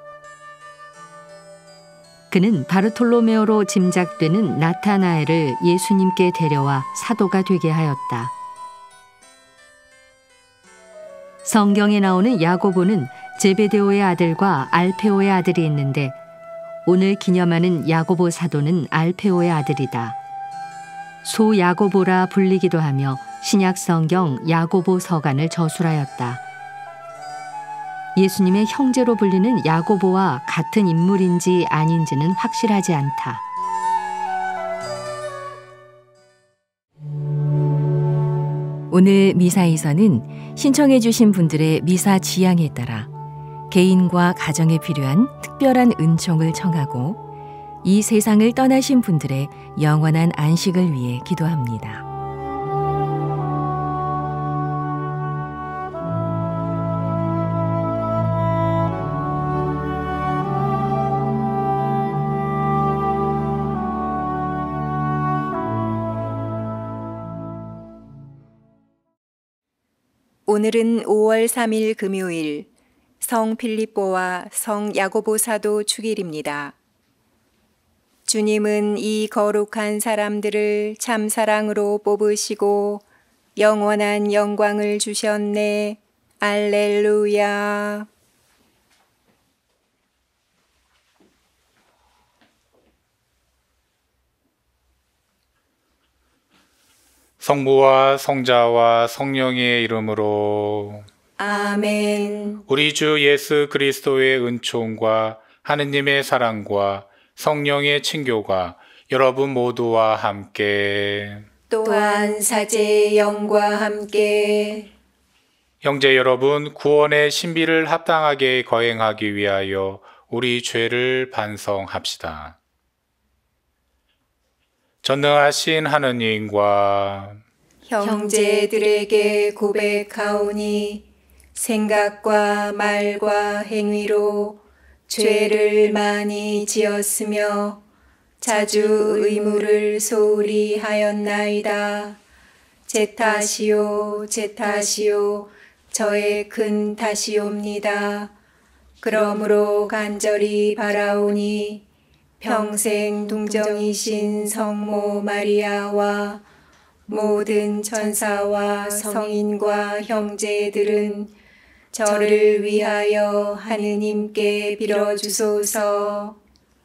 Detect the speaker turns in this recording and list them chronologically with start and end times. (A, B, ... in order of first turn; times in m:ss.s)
0:02.3-0:08.3 A
0:11.4-0:16.2 A
0:16.8-0:20.2 A
0:21.2-0:26.4 A
0:28.2-0:33.4 A
0:38.9-0:43.1 B
0:43.7-0:47.2 B
0:47.8-0:52.0 B
1:10.5-1:12.7 C
1:13.2-1:16.8 C
1:18.3-1:23.0 C
1:23.6-1:28.1 C
1:37.4-1:41.1 D
1:41.4-1:42.6 C
1:42.7-1:51.5 D
1:51.7-1:54.9 C
1:55.8-2:02.6 D
2:05.0-2:07.4 D
2:07.9-2:17.8 C
2:18.4-2:22.2 C
2:22.9-2:28.3 C
2:29.0-2:31.8 C
2:32.4-2:36.4 C
2:37.1-2:41.3 C
2:41.9-2:46.4 C